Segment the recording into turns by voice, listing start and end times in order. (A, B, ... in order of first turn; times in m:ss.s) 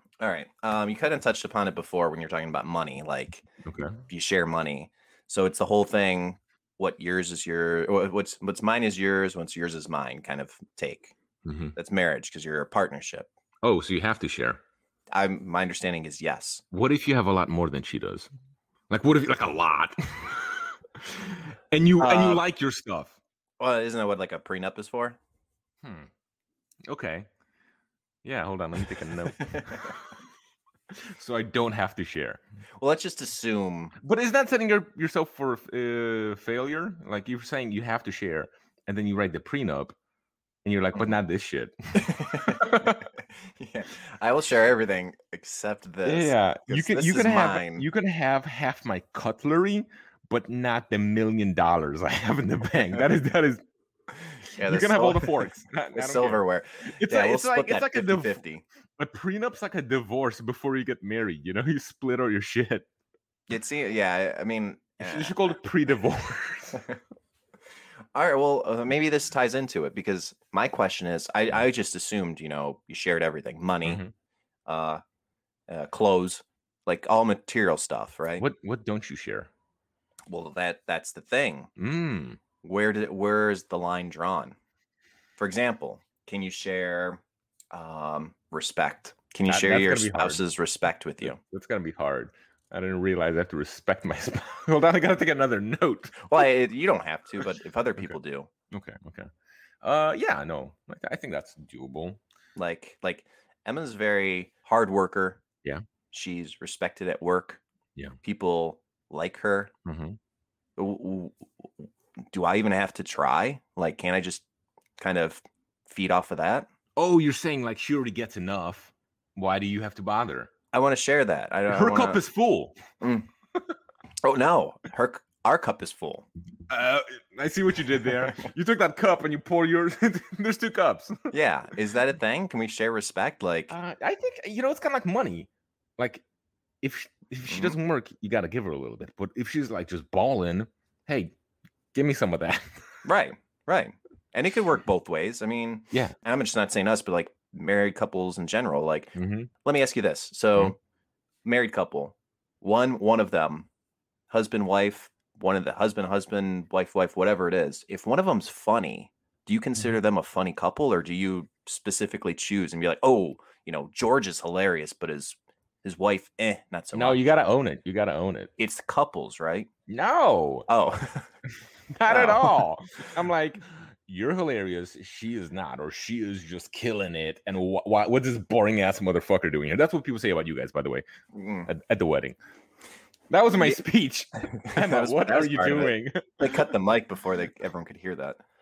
0:00.2-0:03.4 A
0:03.6-0:04.0 B
0:04.1-0:11.1 A
0:11.4-0:11.7 B
0:11.8-0:13.3 A
0:13.6-0:14.6 B
0:15.1-0:16.6 A
0:16.7-0:18.3 B
0:18.9-0:23.2 B
0:22.0-0:22.4 A
0:23.6-0:25.2 A
0:25.8-0:26.1 B
0:26.9-0:27.3 B
0:28.2-0:30.2 B
0:29.4-0:29.9 A
0:31.0-0:32.4 B
0:32.8-0:33.9 A
0:34.0-0:39.9 B
0:40.6-0:43.1 B
0:42.0-0:47.9 A
0:46.0-0:53.6 B
0:54.5-0:58.6 A
0:54.6-0:58.4 B
0:59.0-1:02.9 B
1:03.5-1:05.5 A
1:05.0-1:06.8 B
1:08.1-1:14.0 A
1:13.8-1:14.1 B
1:14.7-1:15.0 A
1:15.7-1:18.4 A
1:18.4-1:19.5 B
1:20.3-1:21.7 A
1:21.8-1:22.4 B
1:22.6-1:24.5 A
1:25.4-1:27.2 A
1:27.7-1:31.4 A
1:29.4-1:30.4 B
1:31.2-1:36.3 B
1:36.2-1:38.5 A
1:38.7-1:39.3 B
1:39.8-1:42.2 B
1:42.6-1:45.4 A
1:46.1-1:47.6 A
1:48.2-1:49.7 A
1:49.8-1:50.2 B
1:50.8-1:54.4 A
1:55.0-1:56.7 A
1:57.0-2:00.5 B
2:00.7-2:02.2 A
2:01.7-2:02.8 B
2:03.0-2:03.3 A
2:04.2-2:06.3 A
2:06.7-2:11.3 B
2:11.3-2:13.7 A
2:13.7-2:16.2 B
2:16.8-2:21.3 B
2:17.5-2:17.8 A
2:21.9-2:22.8 B
2:23.0-2:30.8 A
2:29.2-2:29.5 B
2:31.4-2:33.7 A
2:34.3-2:47.2 A
2:46.9-2:48.5 B
2:48.6-2:49.7 A
2:49.9-2:50.7 B
2:50.7-2:51.3 A
2:51.9-3:01.0 B
2:52.1-2:52.7 A
3:01.3-3:01.7 A
3:01.6-3:02.4 B
3:03.3-3:06.7 B
3:04.5-3:08.4 A